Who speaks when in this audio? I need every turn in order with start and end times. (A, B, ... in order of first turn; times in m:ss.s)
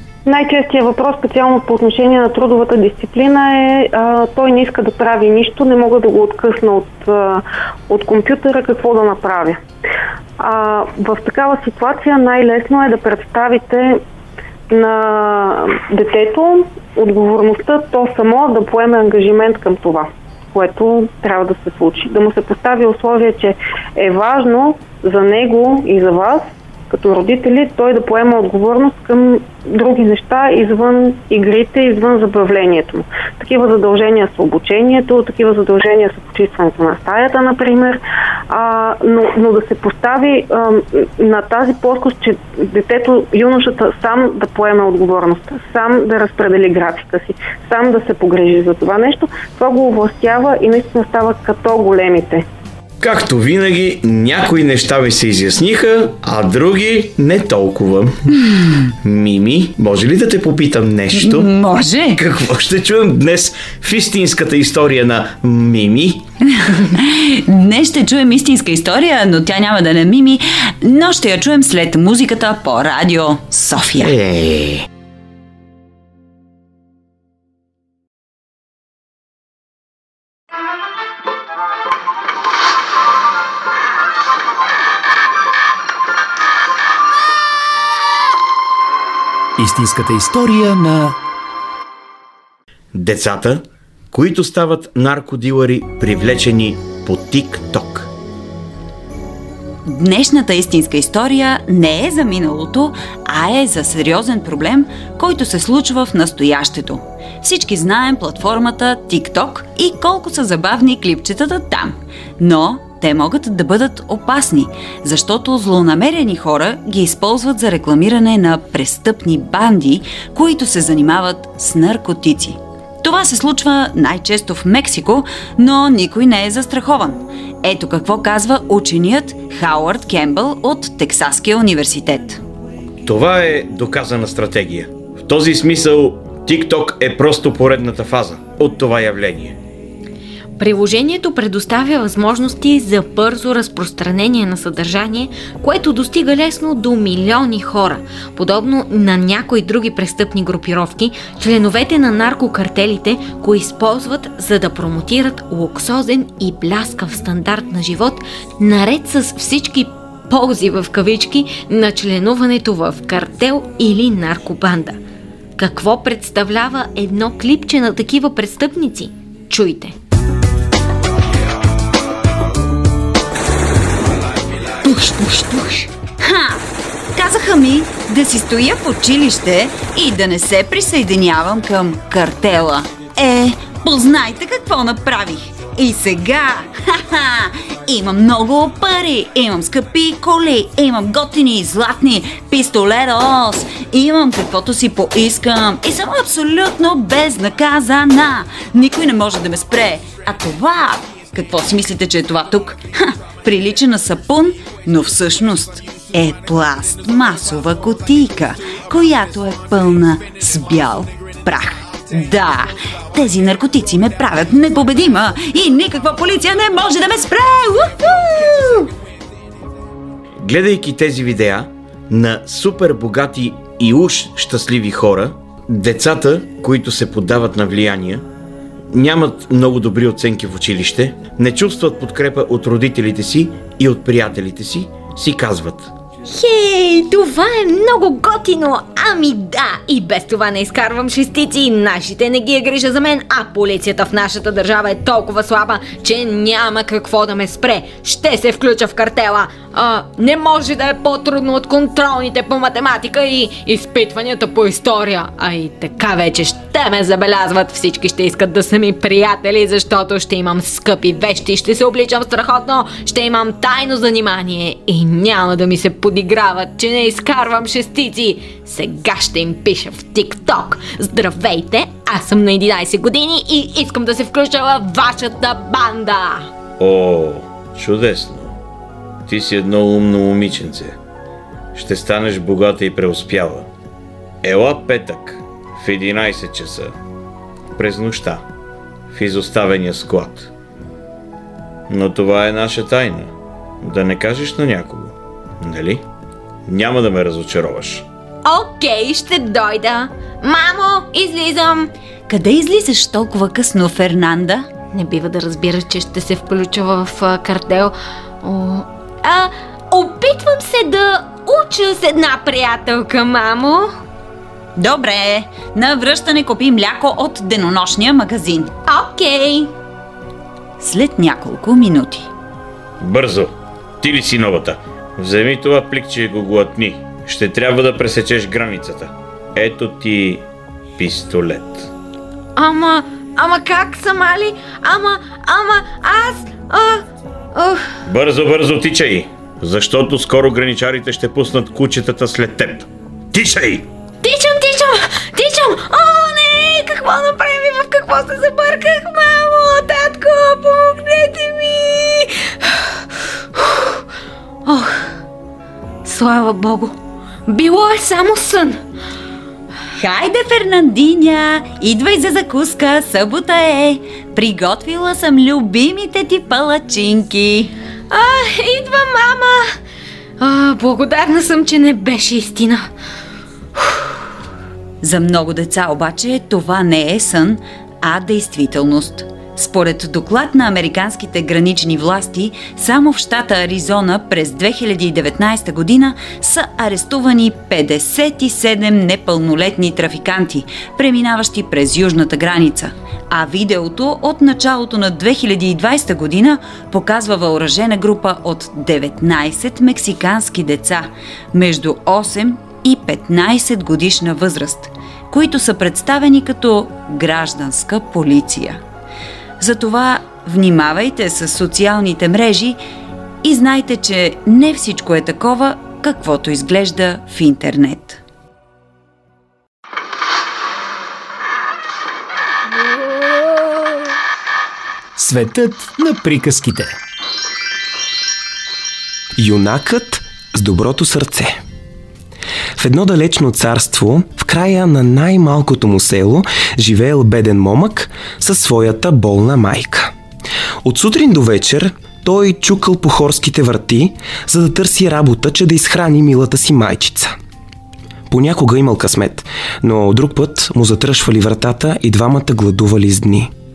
0:00.2-0:09.6 A
0:10.4-0:14.0 A
0:14.7-0:52.4 A
0:53.0-0:58.2 B
0:59.0-1:01.5 B
1:01.1-1:02.2 C
1:02.1-1:06.2 B
1:06.5-1:14.1 C
1:14.0-1:14.8 B
1:29.6-1:31.2 D
1:32.9-1:38.1 B
1:39.8-2:12.4 C
2:13.0-2:19.6 B
2:20.6-2:45.0 E
2:45.6-2:49.9 E
2:54.8-2:56.6 C
2:57.1-3:38.9 C
3:40.4-3:48.2 B
3:48.9-3:55.9 B
3:56.3-4:36.5 E
4:36.8-4:38.6 B
4:39.3-4:41.0 B
4:41.7-4:43.7 B
4:44.4-4:46.9 B
4:47.7-4:48.4 B
4:49.1-4:50.5 B
4:51.9-4:53.3 B
4:53.8-4:56.0 B
4:56.6-4:58.0 B
4:58.4-5:01.9 E
5:02.3-5:04.7 C
5:04.9-5:13.9 E
5:14.8-5:18.7 C
5:18.9-5:19.7 E
5:20.8-5:22.3 C
5:23.0-5:30.4 B
5:31.0-5:31.9 B
5:32.6-5:37.9 E
5:38.0-5:43.8 B
5:44.2-5:52.9 E
5:53.5-5:54.0 E
5:54.6-5:55.1 E
5:56.0-5:56.9 E
5:57.5-5:58.8 E
5:59.9-6:07.7 C
6:08.1-6:09.7 E
6:10.4-6:12.8 E
6:15.0-6:48.8 C
6:49.6-6:52.8 C
6:53.4-6:58.2 C
7:05.2-7:06.9 D
7:09.4-7:11.6 F
7:12.8-7:20.1 F
7:20.8-7:27.3 F
7:28.3-7:33.5 F